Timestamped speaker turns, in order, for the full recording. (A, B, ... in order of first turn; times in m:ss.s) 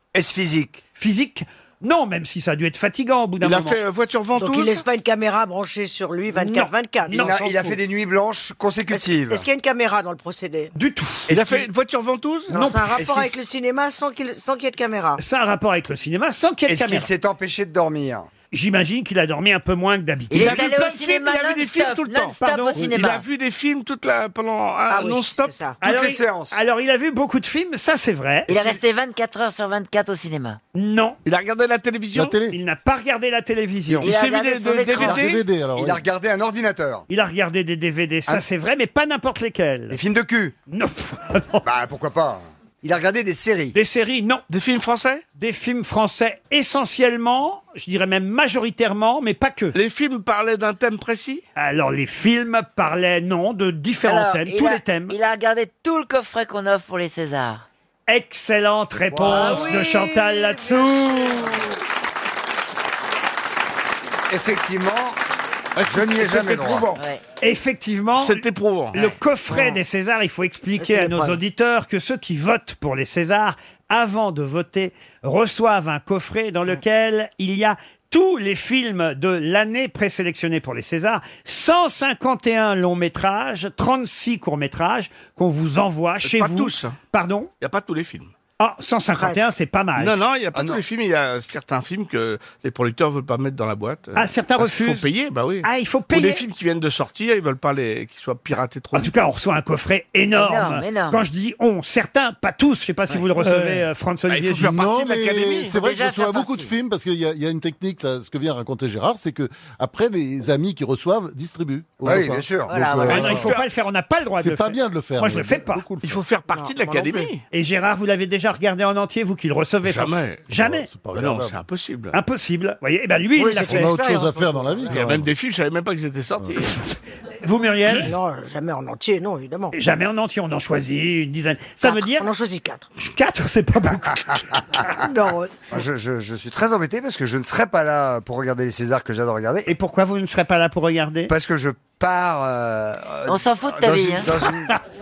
0:00.1-0:00.8 A
0:01.0-0:03.8 B
0:03.4-0:04.8 C
0:04.3-0:07.8 D
0:06.4-0:07.4 B
0:07.1-0:09.4 A
0:08.9-0:10.7 D
0:10.7-0:11.6 B
0:11.3-0:12.5 C
0:12.5-0:15.2 D
0:12.5-0:13.1 B
0:15.2-0:17.1 B
0:16.7-0:18.3 A
0:18.5-0:20.7 B
0:20.3-0:23.2 E
0:20.3-0:25.6 C
0:22.4-0:22.9 B
0:24.9-0:25.8 D
0:25.8-0:28.8 B
0:25.8-0:26.6 A
0:28.5-0:30.6 E
0:30.7-0:31.2 B
0:31.2-0:32.4 C
0:32.1-0:32.6 F
0:32.5-0:34.1 B
0:34.0-0:35.2 E
0:34.0-0:35.4 C
0:34.9-0:36.0 F
0:35.7-0:37.0 A
0:37.1-0:40.0 B
0:39.9-0:40.5 A
0:40.7-0:41.6 B
0:41.6-0:43.8 A
0:43.7-0:44.4 B
0:44.5-0:45.2 C
0:45.4-0:49.8 B
0:49.7-0:51.4 C
0:51.6-0:55.1 B
0:54.0-0:57.6 E
0:58.1-1:01.6 B
0:59.1-0:59.8 A
1:04.3-1:05.2 A
1:05.8-1:07.0 C
1:05.8-1:07.0 A
1:07.4-1:27.5 B
1:08.2-1:09.0 C
1:09.5-1:09.8 D
1:10.8-1:11.4 D
1:26.2-1:27.0 C
1:27.6-1:28.3 C
1:28.6-1:30.2 B
1:29.2-1:29.4 D
1:30.0-1:39.1 C
1:30.5-1:30.8 A
1:34.2-1:35.1 B
1:35.6-1:36.4 B
1:38.9-1:44.8 B
1:40.3-1:41.2 E
1:44.3-1:45.8 C
1:44.6-1:53.6 F
1:45.7-1:46.7 E
1:52.0-1:53.1 A
1:52.7-1:53.4 E
1:53.1-1:55.8 B
1:54.4-1:56.2 F
1:56.0-1:57.4 C
1:56.5-1:57.3 D
1:57.5-2:00.9 B
1:59.8-2:00.5 C
2:00.5-2:01.6 F
2:01.1-2:02.2 C
2:02.1-2:03.9 B
2:03.4-2:05.0 D
2:03.6-2:05.3 F
2:04.9-2:06.9 C
2:07.4-2:08.1 B
2:07.9-2:09.7 D
2:09.7-2:12.3 B
2:11.8-2:12.9 D
2:13.0-2:14.2 B
2:14.3-2:14.8 A
2:15.0-2:15.6 D
2:15.7-2:19.7 A
2:19.6-2:21.3 B
2:21.3-2:24.7 A
2:23.2-2:24.3 E